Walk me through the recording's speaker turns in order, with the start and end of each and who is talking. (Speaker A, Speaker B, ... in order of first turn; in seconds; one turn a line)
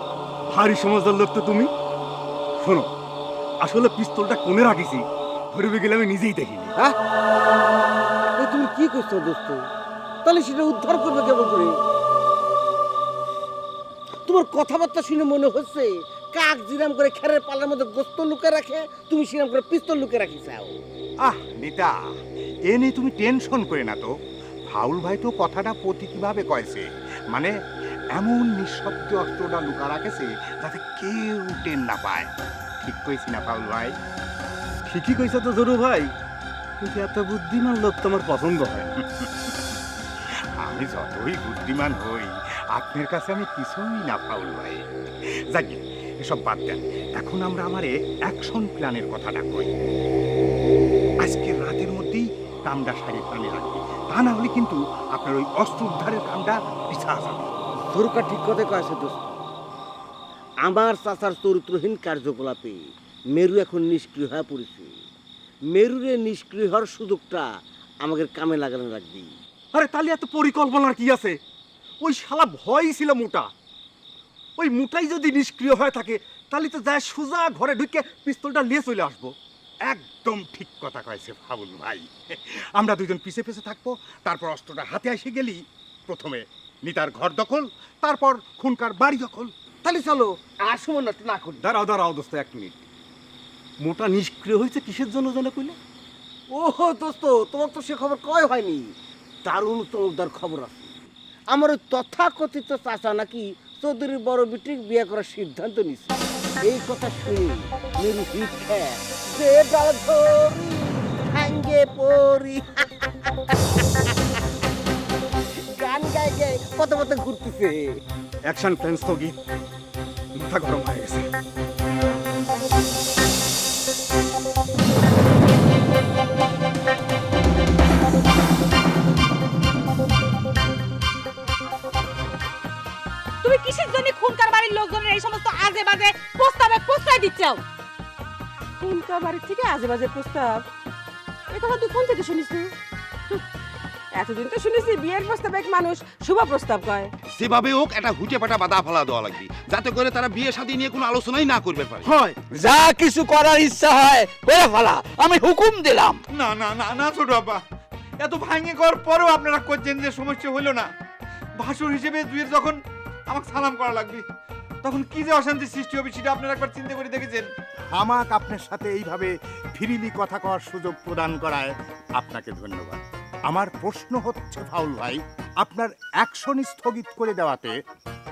Speaker A: 4.5-4.8
Speaker A: 5.6-6.5
Speaker B: 8.4-9.6
Speaker B: 10.2-11.8
Speaker B: 14.3-20.7
Speaker A: 21.2-21.9
Speaker A: 22.7-24.1
Speaker A: 24.7-27.5
Speaker A: 28.1-34.0
Speaker C: 34.9-35.8
Speaker C: 37.5-38.4
Speaker A: 39.0-39.8
Speaker A: 40.6-44.9
Speaker A: 45.5-49.7
Speaker A: 51.2-57.5
Speaker B: 57.9-59.4
Speaker B: 60.6-62.8
Speaker B: 63.3-64.9
Speaker B: 65.7-67.5
Speaker B: 68.0-69.3
Speaker C: 69.8-71.3
Speaker C: 72.5-72.8
Speaker C: 74.6-79.3
Speaker A: 79.9-89.5
Speaker B: 89.8-91.7
Speaker C: 91.6-92.8
Speaker C: 93.8-95.8
Speaker B: 96.6-98.8
Speaker B: 99.5-100.9
Speaker B: 101.5-112.8
Speaker B: 115.7-117.8
Speaker C: 118.5-119.3
Speaker C: 120.4-121.2
Speaker D: 133.4-137.6
Speaker D: 138.8-140.7
Speaker D: 141.5-142.7
Speaker D: 144.2-147.1
Speaker E: 147.4-152.1
Speaker F: 152.1-156.2
Speaker G: 156.3-157.6
Speaker G: 158.2-160.9
Speaker G: 161.6-162.8
Speaker G: 163.3-164.2
Speaker G: 164.8-167.5
Speaker A: 167.9-177.8